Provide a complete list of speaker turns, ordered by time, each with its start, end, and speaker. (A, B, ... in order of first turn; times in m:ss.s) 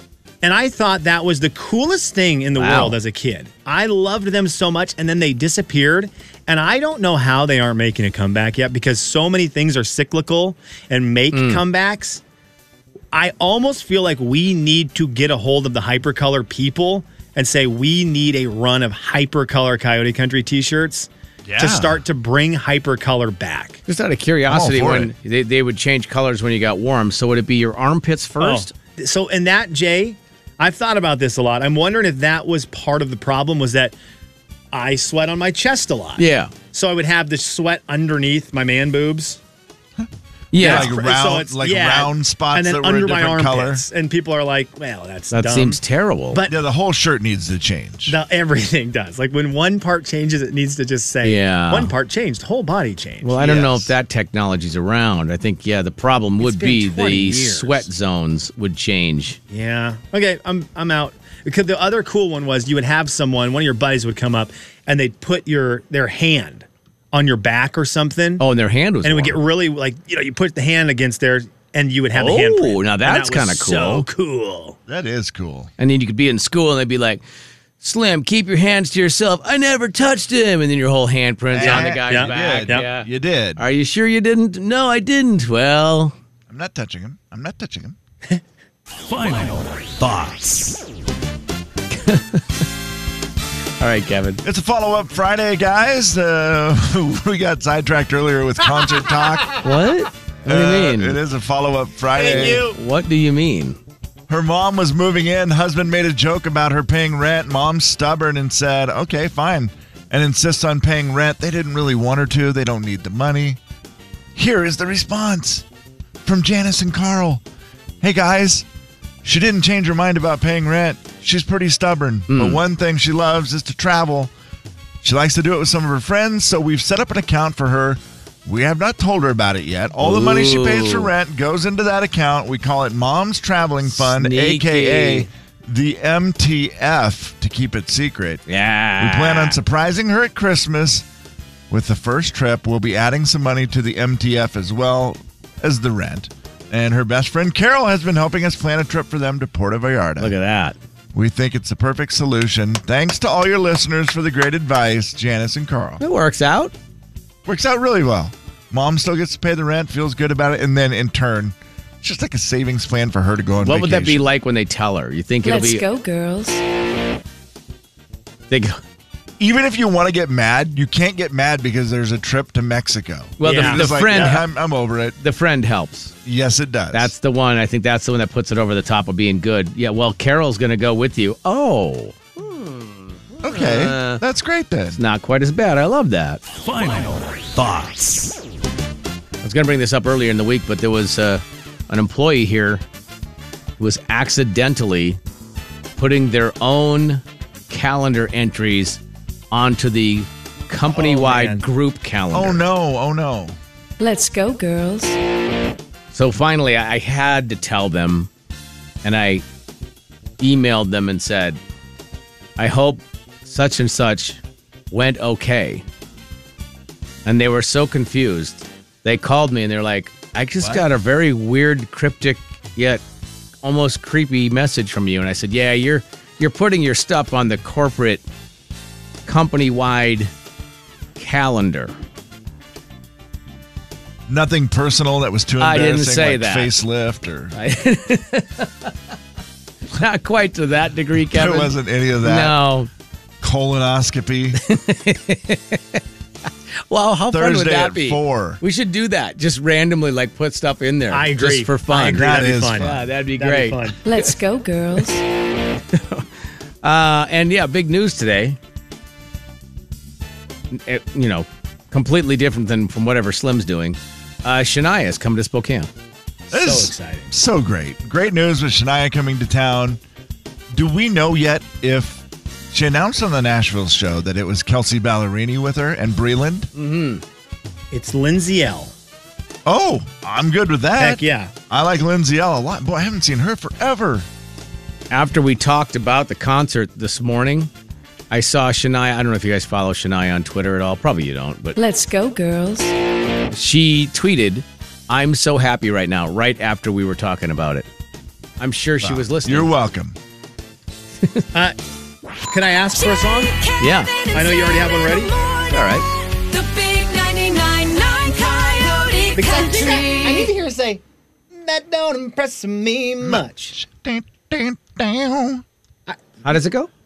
0:00.4-0:12.2 A
0:02.6-0:03.0 B
0:11.3-0:11.6 B
0:13.1-0:23.8 A
0:21.5-0:22.0 C
0:23.9-0:28.7 B
0:24.5-0:25.1 C
0:28.4-0:33.9 A
0:34.7-0:39.4 A
0:36.2-0:36.5 B
0:40.0-0:43.8 C
0:40.5-0:41.0 B
0:40.6-0:45.8 A
0:45.3-0:46.4 B
0:46.3-0:46.6 A
0:46.5-0:48.2 C
0:48.1-0:53.9 A
0:51.2-0:51.9 B
0:53.2-0:59.4 B
0:56.4-0:57.9 A
0:59.5-1:08.4 A
1:08.4-1:09.4 B
1:09.0-1:14.8 A
1:12.1-1:14.1 B
1:14.9-1:15.7 C
1:15.8-1:17.2 B
1:17.8-1:26.2 B
1:21.5-1:23.6 C
1:21.6-1:22.9 A
1:26.5-1:28.0 C
1:29.1-1:30.8 D
1:31.9-1:32.6 B
1:33.8-1:34.4 B
1:34.4-1:39.6 C
1:39.6-1:41.2 B
1:40.4-1:42.8 C
1:42.2-1:42.7 A
1:42.2-1:43.8 B
1:44.3-1:53.6 C
1:54.4-1:55.6 C
1:56.2-1:57.4 C
1:58.0-1:58.7 C
1:59.2-2:04.3 C
2:02.3-2:02.6 B
2:05.0-2:18.4 C
2:10.0-2:11.1 B
2:13.9-2:15.3 B
2:18.5-2:19.6 B
2:19.0-2:21.1 C
2:21.7-2:30.3 C
2:30.2-2:30.8 B
2:31.1-2:36.0 C
2:36.0-2:36.7 B
2:37.4-2:44.3 C
2:43.6-2:45.9 B
2:45.4-2:46.6 E
2:48.5-2:48.8 B
2:49.4-2:55.2 C
2:53.4-2:54.5 B
2:53.4-2:54.1 A
2:55.2-2:56.1 B
2:56.2-2:57.1 C
2:56.9-3:04.2 B
3:03.4-3:05.0 C
3:04.9-3:06.4 B
3:06.6-3:08.3 D
3:09.4-3:12.8 B
3:13.8-3:15.2 B
3:16.0-3:22.6 B
3:20.9-3:21.6 A
3:22.3-3:23.6 C
3:24.0-3:25.2 E
3:26.1-3:28.3 B
3:29.0-3:29.4 B
3:30.4-3:31.6 B
3:32.6-3:34.4 B
3:34.9-3:35.8 B
3:37.2-3:43.0 B
3:40.6-3:40.8 C
3:43.6-3:48.2 B
3:49.3-3:50.3 B
3:51.2-3:52.0 B
3:54.3-3:57.6 C
3:55.6-3:56.7 B
3:57.5-3:58.9 B
3:59.9-4:02.9 B
4:01.3-4:02.6 C
4:03.4-4:04.6 C
4:04.6-4:06.0 B
4:06.9-4:14.4 B
4:07.3-4:08.6 C
4:11.1-4:14.0 A
4:12.0-4:13.0 C
4:14.0-4:15.2 E
4:15.9-4:16.3 B
4:16.8-4:18.6 B
4:20.7-4:25.9 B
4:26.5-4:27.3 A
4:26.5-4:30.0 C
4:30.7-4:36.7 C
4:36.7-4:37.2 B
4:37.9-4:38.9 A
4:39.7-4:44.3 C
4:41.0-4:41.5 A
4:45.1-4:47.7 B
4:48.3-4:51.8 B
4:51.8-4:53.0 E
4:53.5-4:57.9 B
4:58.6-4:59.7 B
4:59.0-5:00.2 C
5:02.5-5:03.6 A
5:03.0-5:10.5 E
5:03.8-5:04.1 B
5:04.3-5:05.3 A
5:05.7-5:06.0 B
5:09.4-5:13.8 A
5:13.2-5:15.6 C
5:16.4-5:16.9 B